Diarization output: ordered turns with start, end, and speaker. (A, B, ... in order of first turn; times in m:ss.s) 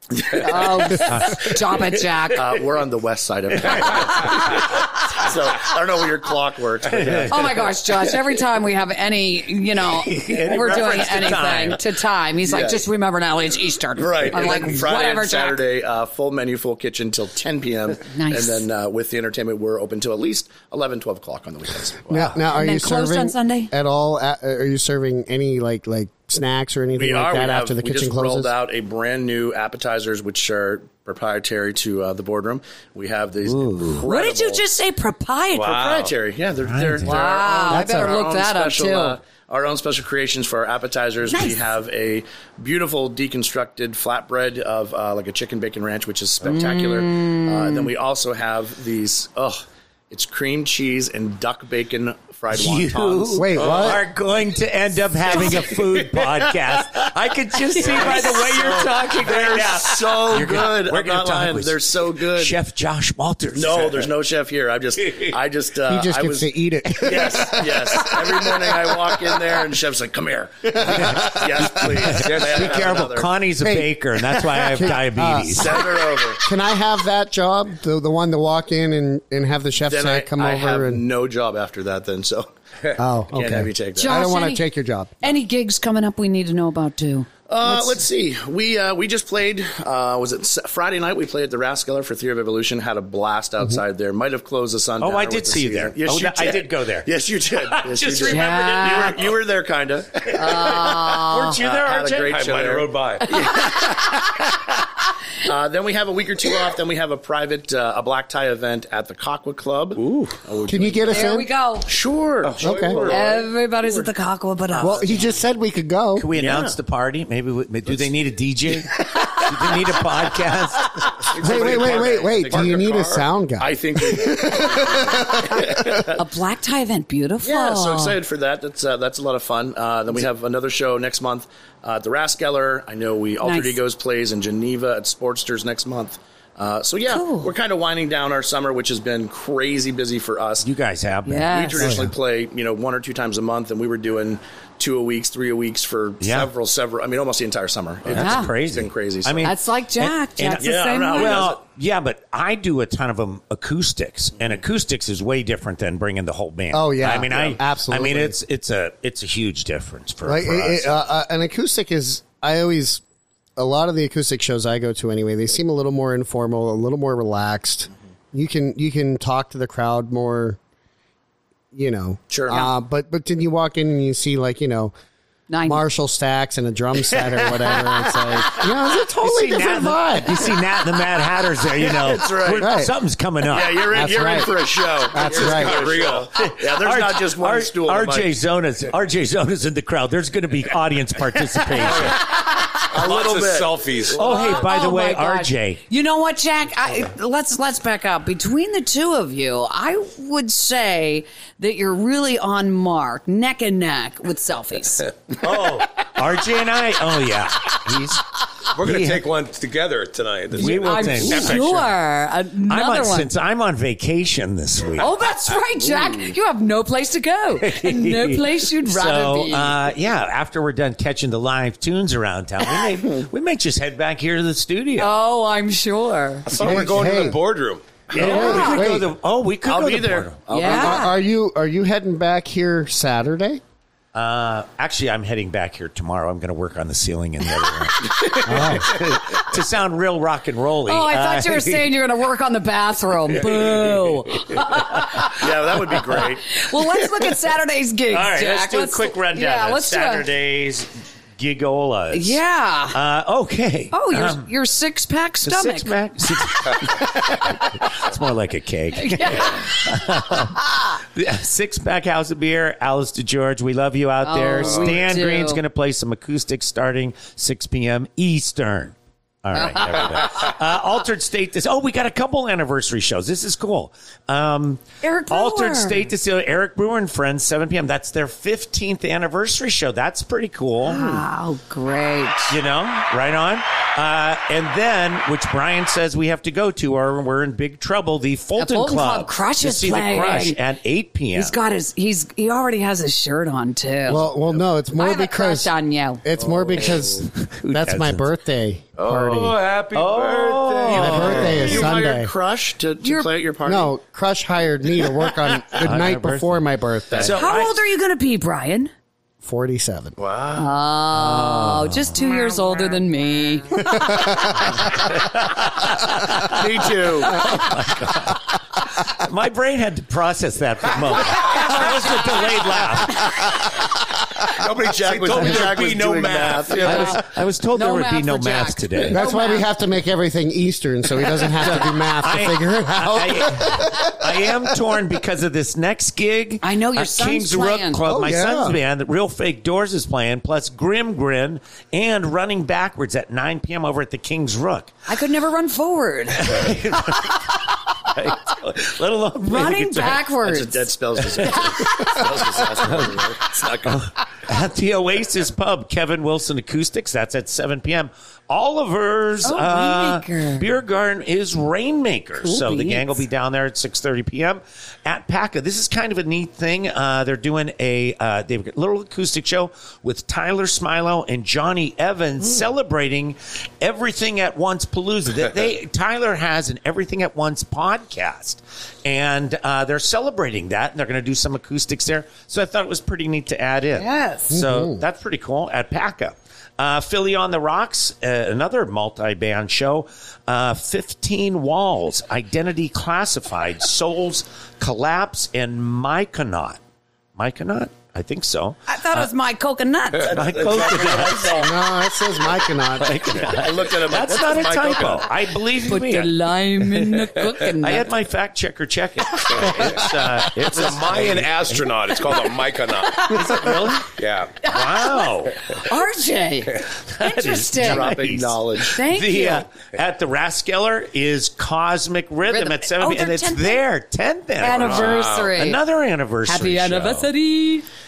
0:00.2-0:00.8 A
0:00.4-0:02.5 B
0:01.0-0:01.4 C
0:02.3-0:07.6 A
0:03.6-0:04.2 C
0:06.9-0:07.3 C
0:07.3-0:15.6 B
0:09.9-0:11.8 C
0:10.7-0:11.2 A
0:12.4-0:12.8 A
0:14.0-0:22.4 A
0:18.1-0:18.7 B
0:22.1-0:28.5 D
0:22.1-0:23.7 B
0:27.0-0:34.6 A
0:33.4-0:34.0 C
0:34.0-0:35.9 B
0:35.6-0:54.0 A
0:35.6-0:36.1 E
0:36.6-0:37.2 C
0:37.0-0:39.2 B
0:37.7-0:38.2 D
0:41.3-0:41.6 B
0:46.4-0:47.9 B
0:52.5-1:04.1 C
0:53.4-0:54.0 D
0:55.3-0:56.1 A
0:57.8-1:02.6 A
1:03.5-1:06.5 A
1:05.9-1:08.3 D
1:07.0-1:13.3 A
1:10.8-1:15.9 C
1:13.6-1:21.0 D
1:15.6-1:16.4 A
1:19.8-1:22.5 A
1:23.0-1:25.3 D
1:23.3-1:24.2 A
1:24.0-1:24.7 B
1:25.2-1:28.0 B
1:27.5-1:44.0 A
1:35.0-1:37.1 C
1:37.7-1:38.4 C
1:38.2-1:39.2 B
1:40.3-1:41.6 B
1:41.0-1:42.4 C
1:42.3-1:43.3 E
1:45.4-1:54.1 A
1:50.7-1:51.5 D
1:51.1-1:51.9 B
1:52.4-1:53.3 E
1:52.6-1:53.0 D
1:53.0-1:55.4 B
1:54.8-1:55.0 A
1:54.8-1:56.3 D
1:56.2-2:00.9 C
1:56.4-1:56.8 A
2:01.2-2:06.2 A
2:01.4-2:06.0 D
2:06.2-2:08.2 B
2:07.4-2:20.7 A
2:13.4-2:13.8 B
2:17.1-2:17.5 B
2:20.6-2:21.9 C
2:21.3-2:22.0 B
2:21.5-2:29.5 A
2:21.8-2:22.1 D
2:26.2-2:26.5 C
2:28.1-2:40.9 C
2:28.2-2:28.5 B
2:29.4-2:31.4 B
2:30.6-2:31.6 A
2:34.4-2:34.6 A
2:36.7-2:38.4 D
2:40.2-2:43.0 D
2:43.6-2:50.6 D
2:51.7-2:54.9 D
2:52.3-2:52.7 A
2:55.5-2:55.8 B
2:55.7-3:00.5 D
2:57.1-3:04.2 C
3:01.8-3:02.7 A
3:02.6-3:02.9 D
3:03.5-3:08.3 A
3:03.9-3:04.6 D
3:05.1-3:05.8 D
3:05.2-3:06.3 E
3:06.3-3:12.2 C
3:11.8-3:12.2 A
3:12.9-3:14.5 A
3:12.9-3:14.2 E
3:14.2-3:15.8 C
3:14.2-3:25.1 B
3:25.4-3:29.2 C
3:28.7-3:31.9 E
3:30.5-3:31.9 C
3:30.6-3:33.3 B
3:32.7-3:35.1 C
3:35.0-3:39.8 B
3:37.6-3:45.1 C
3:45.0-3:46.6 B
3:46.5-3:47.9 E
3:46.6-3:47.4 D
3:46.6-3:47.0 A
3:48.1-3:50.5 C
3:48.2-3:49.1 D
3:48.2-3:48.8 B
3:49.6-3:51.0 A
3:50.5-3:51.2 B
3:50.6-3:53.6 D
3:54.1-4:01.9 C
3:58.4-3:59.0 D
4:00.9-4:05.4 B
4:03.4-4:03.9 C
4:04.5-4:05.3 C
4:05.3-4:06.5 A
4:06.2-4:10.3 B
4:08.1-4:12.4 C
4:12.1-4:13.0 B
4:12.9-4:14.4 C
4:13.9-4:16.8 B
4:15.5-4:41.2 C
4:19.0-4:20.9 B
4:24.2-4:25.6 B
4:29.5-4:30.1 B
4:35.0-4:36.1 B
4:40.8-4:42.6 B
4:42.5-4:51.5 C
4:48.6-4:50.6 B
4:51.4-4:54.2 B
4:54.1-4:55.7 D
4:54.9-4:56.2 B
4:56.2-4:59.6 D
4:56.4-4:56.9 A
4:57.4-4:58.3 C
4:59.0-5:01.6 E
4:59.9-5:01.9 C
5:00.9-5:03.9 A
5:00.9-5:02.3 D
5:03.0-5:03.3 B
5:03.6-5:07.4 D
5:05.7-5:07.8 C
5:07.2-5:08.9 B
5:09.4-5:10.2 D
5:10.2-5:10.7 E
5:10.6-5:14.4 B
5:11.4-5:11.9 C
5:14.1-5:14.5 D
5:15.0-5:23.5 C
5:16.5-5:17.4 A
5:24.6-5:27.0 E
5:24.7-5:27.2 A
5:26.8-5:27.2 B
5:26.8-5:29.2 C
5:27.7-5:29.7 B
5:29.1-5:34.5 D
5:31.6-5:44.9 C
5:36.6-5:38.0 B
5:38.1-5:38.8 D
5:45.1-5:46.7 B
5:46.4-5:50.3 C
5:49.4-5:50.9 B
5:50.4-5:53.9 A
5:51.4-5:53.2 C
5:51.4-5:52.1 B
5:53.8-6:36.8 C
5:59.4-6:00.7 B
6:02.4-6:03.2 B
6:24.0-6:24.6 B
6:24.5-6:25.0 D
6:37.4-6:39.3 C
6:38.9-6:40.3 B
6:40.3-6:41.7 C
6:40.5-6:41.5 E
6:40.6-6:41.0 A
6:41.6-6:43.2 D
6:43.0-6:46.3 C
6:43.5-6:45.3 A
6:44.4-6:45.0 E
6:45.8-6:48.1 B
6:47.0-6:51.8 C
6:49.5-6:54.5 E
6:53.3-6:54.1 C
6:54.6-6:59.7 B
6:54.6-6:55.8 C
6:57.2-7:07.3 C
6:57.8-6:59.0 A
7:02.5-7:03.8 B
7:04.6-7:05.8 B
7:04.7-7:05.5 E
7:06.5-7:07.8 B